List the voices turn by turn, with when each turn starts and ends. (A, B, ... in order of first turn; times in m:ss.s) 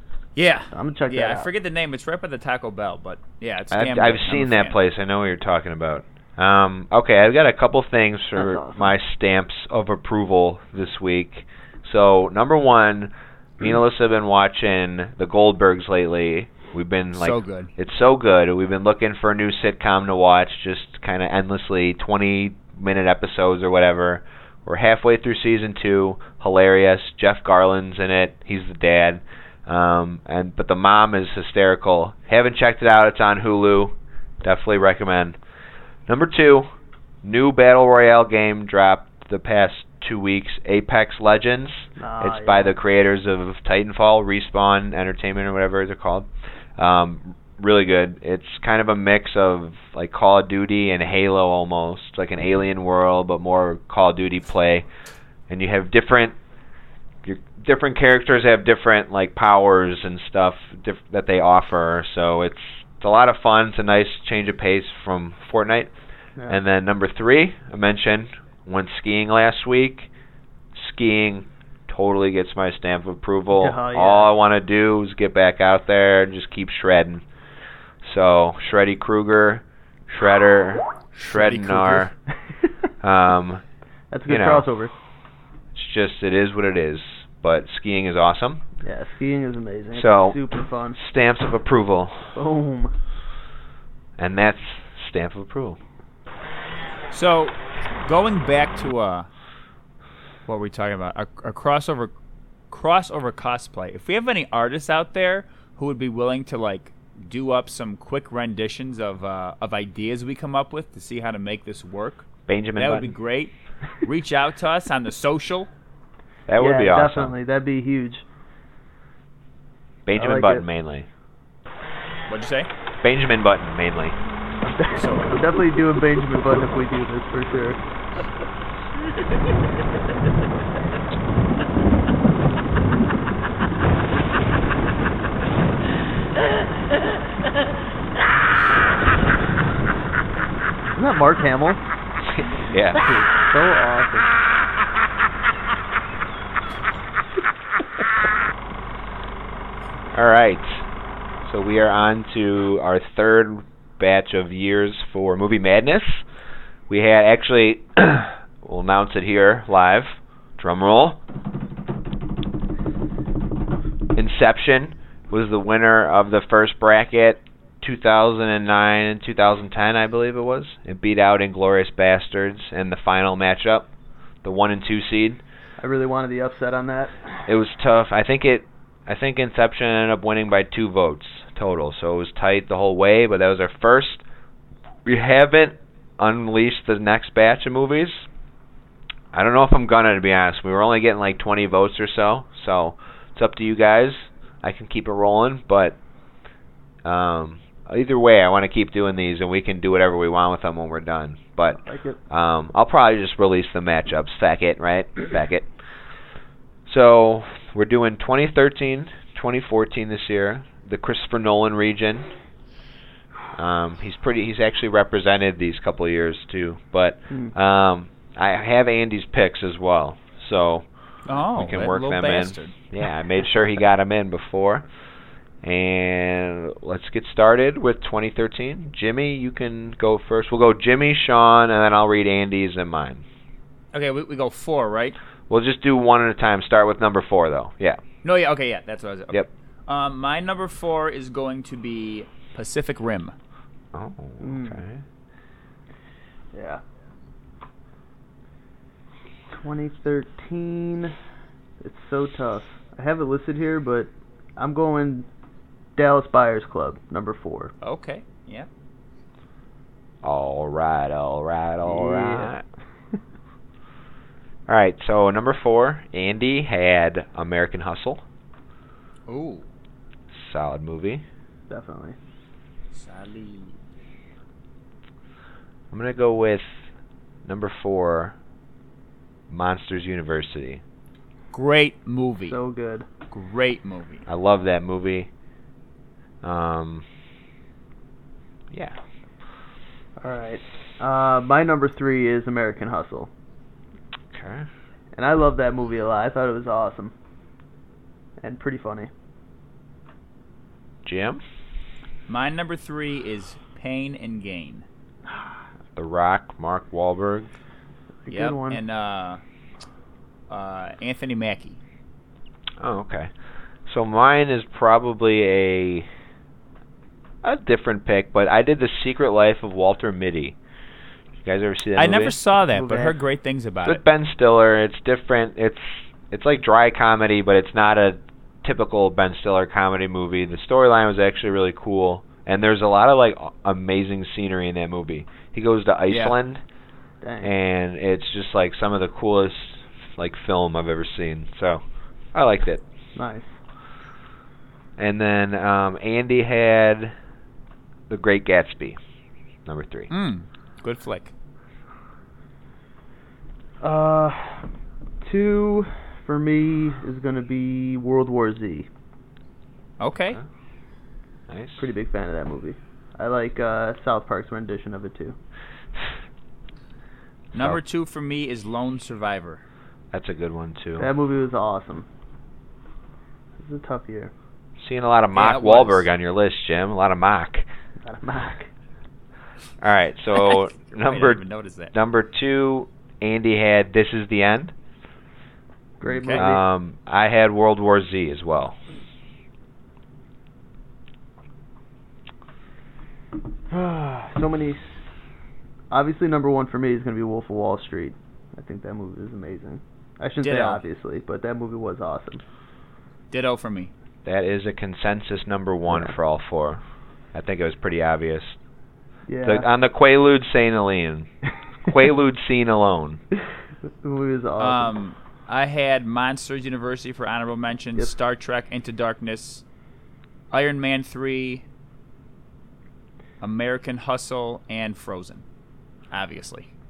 0:00.4-0:04.8 A
0:00.7-0:01.5 B
0:03.7-0:35.4 C
0:08.4-0:08.9 B
0:17.2-0:17.7 A
0:36.1-0:36.7 C
0:37.2-0:54.8 C
0:42.0-0:42.8 B
0:55.5-0:56.4 C
0:57.2-1:05.9 C
1:06.5-1:10.1 C
1:10.7-1:17.2 C
1:13.5-1:14.3 B
1:18.0-1:22.1 C
1:21.2-1:22.1 A
1:23.0-1:23.6 C
1:24.1-1:24.9 B
1:24.3-1:24.6 C
1:25.7-1:28.6 C
1:28.8-1:31.0 B
1:29.9-1:32.3 C
1:32.3-1:32.9 B
1:34.2-1:35.8 C
1:37.1-1:39.3 A
1:40.5-1:42.1 A
1:42.7-1:55.7 A
1:52.5-1:53.1 C
1:56.5-1:57.3 C
1:56.6-1:58.2 B
2:00.0-2:01.1 C
2:00.2-2:00.6 B
2:02.3-2:02.7 A
2:03.0-2:04.2 C
2:04.6-2:07.8 B
2:04.9-2:05.5 A
2:20.9-2:21.8 B
2:22.3-2:23.1 C
2:23.0-2:24.3 B
2:30.1-2:30.8 C
2:31.4-2:36.2 C
2:36.9-2:41.2 C
2:44.2-2:53.9 C
2:54.4-2:55.4 C
2:55.8-2:57.2 B
2:57.5-3:04.2 C
3:05.0-3:08.2 C
3:09.3-3:16.0 C
3:17.0-3:25.7 C
3:21.8-3:22.2 B
3:26.9-3:32.3 C
3:33.6-3:40.8 C
3:41.3-3:42.7 A
3:41.5-3:44.8 C
3:45.6-3:53.2 C
3:53.9-3:55.2 A
3:55.5-3:58.0 C
3:58.2-4:03.3 A
4:03.9-4:05.0 C
4:04.4-4:04.8 B
4:06.5-4:06.8 B
4:09.5-4:11.2 B
4:11.8-4:15.3 B
4:16.0-4:17.7 B
4:17.8-4:18.7 A
4:20.2-4:22.6 C
4:21.8-4:22.5 B
4:24.7-4:28.2 C
4:29.3-4:29.7 A
4:30.3-4:31.2 C
4:31.7-4:32.2 B
4:32.9-4:33.8 A
4:35.9-4:36.8 C
4:37.4-4:38.3 C
4:39.5-4:40.8 C
4:41.5-4:42.6 A
4:42.5-4:43.0 B
4:43.3-4:44.2 A
4:44.3-4:45.3 C
4:46.4-4:47.0 C
4:48.7-4:49.0 C
4:50.2-4:53.3 B
4:54.3-4:54.7 C
4:55.1-4:57.1 B
4:58.4-4:59.1 B
5:01.0-5:01.4 C
5:02.3-5:04.8 A
5:05.9-5:07.5 C
5:08.2-5:08.8 B
5:08.3-5:09.4 A
5:10.5-5:11.8 A
5:12.8-5:13.3 C
5:13.9-5:16.1 C
5:17.4-5:20.5 C
5:21.4-5:22.4 C
5:22.0-5:24.0 A
5:22.7-5:23.1 B
5:23.8-5:36.6 C
5:36.1-5:36.4 A
5:37.2-5:37.5 B
5:37.4-5:41.8 C
5:42.3-5:42.8 C
5:43.2-5:43.6 B
5:45.0-5:47.1 C
5:48.1-5:49.0 C
5:49.6-5:50.1 C
5:50.1-5:51.3 A
5:53.8-5:54.6 B
5:55.2-5:58.9 B
6:00.0-6:00.4 A
6:01.5-6:01.8 C
6:01.8-6:05.4 B
6:07.5-6:09.6 A
6:10.1-6:11.1 C
6:11.0-6:12.0 B
6:13.6-6:14.3 B
6:14.8-6:17.6 C
6:15.3-6:16.1 A
6:18.0-6:18.7 B
6:19.8-6:24.7 C
6:20.4-6:21.9 A
6:26.0-6:26.6 B
6:26.0-6:26.5 A
6:26.3-6:28.8 C
6:33.7-6:34.8 B
6:35.9-6:42.4 B
6:40.4-6:40.8 A
6:43.3-6:43.9 A
6:44.2-6:46.8 C
6:45.9-6:46.1 B
6:47.3-6:48.6 C
6:49.3-6:49.6 B
6:49.4-6:51.3 C
6:51.9-6:53.2 C
6:54.0-6:54.9 B
6:54.6-6:59.6 A
7:00.5-7:01.6 A
7:03.4-7:05.4 A
7:06.1-7:06.7 A